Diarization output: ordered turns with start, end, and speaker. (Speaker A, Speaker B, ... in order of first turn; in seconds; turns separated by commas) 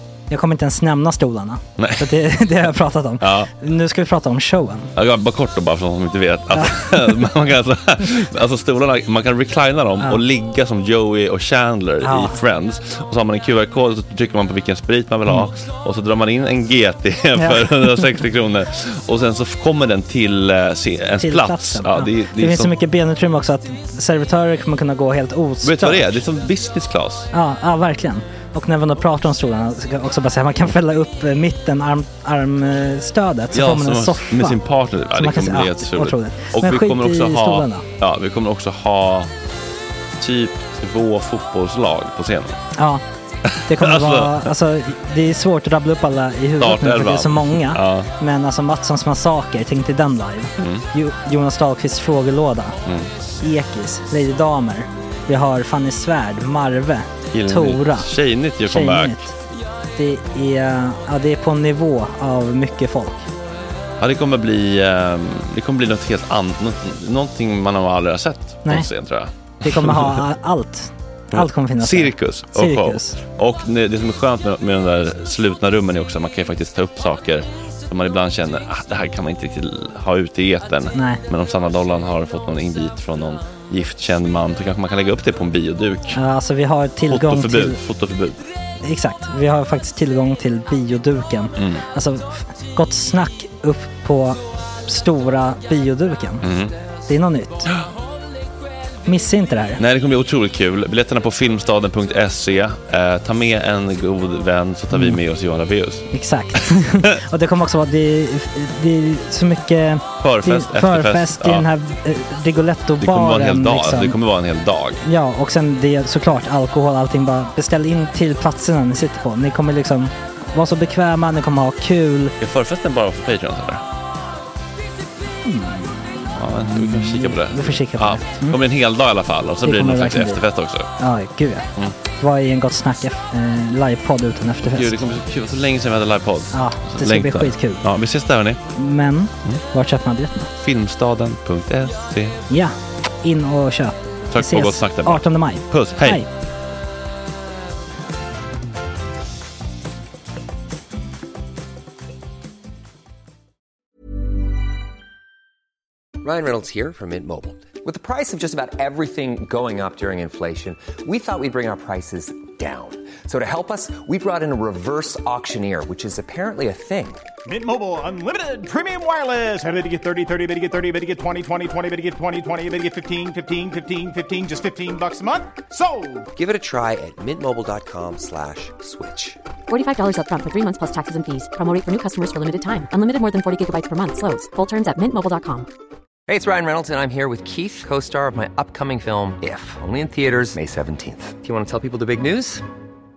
Speaker A: 0.3-4.9, Speaker B: 1.8-2.1, Speaker B: 3.2-3.5, Speaker B: 5.0-22.7, Speaker A: 6.6-6.9, Speaker A: 12.0-12.4, Speaker A: 17.4-18.0, Speaker A: 21.2-26.2, Speaker B: 25.6-27.3, Speaker A: 27.3-34.6, Speaker B: 33.5-39.3, Speaker A: 35.1-37.8, Speaker B: 40.2-42.6, Speaker A: 42.8-43.0, Speaker B: 43.5-44.4, Speaker A: 43.6-52.8, Speaker B: 46.6-48.1, Speaker A: 53.4-58.1, Speaker B: 57.3-59.2, Speaker A: 58.6-59.4, Speaker A: 59.9-63.3, Speaker B: 64.0-70.2, Speaker A: 69.6-73.2, Speaker B: 71.3-86.2, Speaker A: 80.9-81.2, Speaker A: 86.1-87.8, Speaker B: 87.1-88.4, Speaker A: 88.8-96.5, Speaker B: 91.6-91.8, Speaker B: 96.4-96.7, Speaker A: 97.1-97.7, Speaker A: 99.0-99.8, Speaker B: 99.8-106.0, Speaker A: 106.1-114.2, Speaker B: 110.2-111.7, Speaker B: 113.0-115.0, Speaker A: 115.0-122.3, Speaker B: 122.4-123.8, Speaker A: 125.4-128.6, Speaker B: 126.3-130.9, Speaker A: 129.6-130.4, Speaker A: 131.0-135.1, Speaker B: 134.7-138.6, Speaker A: 136.5-137.8, Speaker A: 138.7-140.5, Speaker B: 140.6-142.3, Speaker A: 142.5-146.2, Speaker B: 144.3-146.2, Speaker C: 156.2-167.2, Speaker D: 167.4-176.3, Speaker C: 176.3-179.4, Speaker E: 179.7-185.7, Speaker C: 186.3-192.6